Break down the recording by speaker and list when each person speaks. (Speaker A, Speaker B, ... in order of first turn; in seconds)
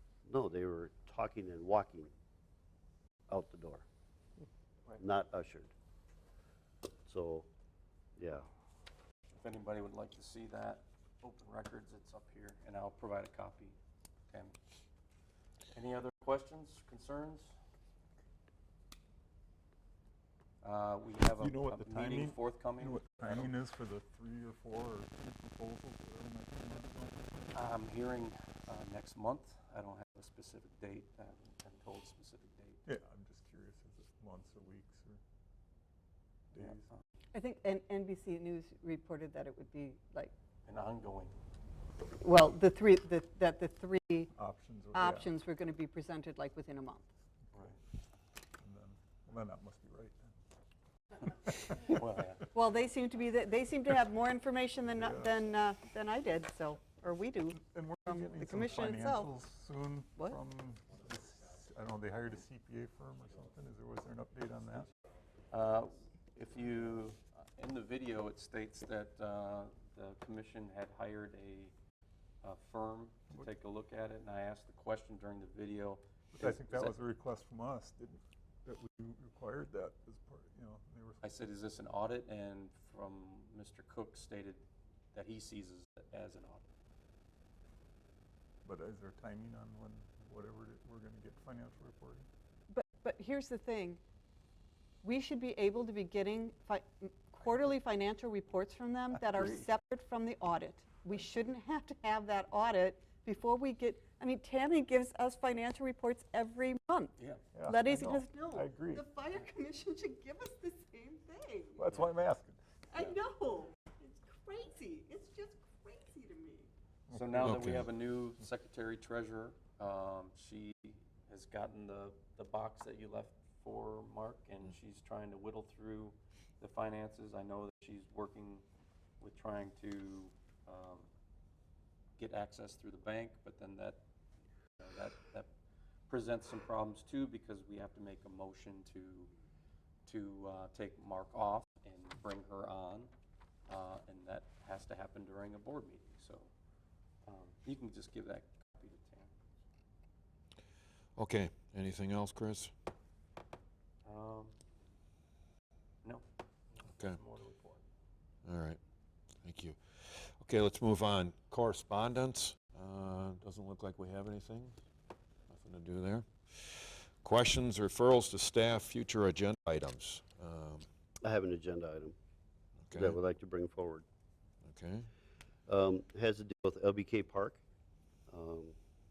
Speaker A: 0.3-2.1, 3.3-3.9, 4.9-5.7, 7.1-7.5, 8.2-8.5, 171.2-172.2, 172.9-174.1, 175.7-177.6, 178.3-178.8
Speaker B: 9.4-13.8, 14.3-14.6, 15.7-17.5, 20.6-23.5, 27.5-32.8, 36.6-37.0, 40.7-41.4, 47.5-47.8, 51.9-52.5, 65.5-71.7, 72.4-77.0, 81.2-86.6, 117.1-128.6, 129.2-131.1, 132.2-134.0, 134.8-135.5, 136.1-139.3, 140.1-143.1, 143.7-146.5, 147.2-149.3, 154.1-154.6, 156.0-157.9
Speaker C: 21.4-27.2, 32.9-35.2, 36.5-36.9, 44.3-45.4, 47.5-47.8, 48.6-50.4, 51.5-51.7, 54.9-55.5, 57.6-64.9, 76.3-81.2, 88.6-92.3, 99.3-99.6, 107.5-109.1, 111.8-112.6, 117.1-117.7
Speaker D: 37.3-40.3, 42.2-44.3, 44.9-47.1, 52.5-59.3, 92.7-94.0, 95.0-112.0, 112.9-116.7
Speaker E: 117.4-117.9, 151.2-152.7, 156.9-157.2, 158.4-158.8, 159.4-164.8, 165.5-170.9, 172.8-173.2, 174.6-175.1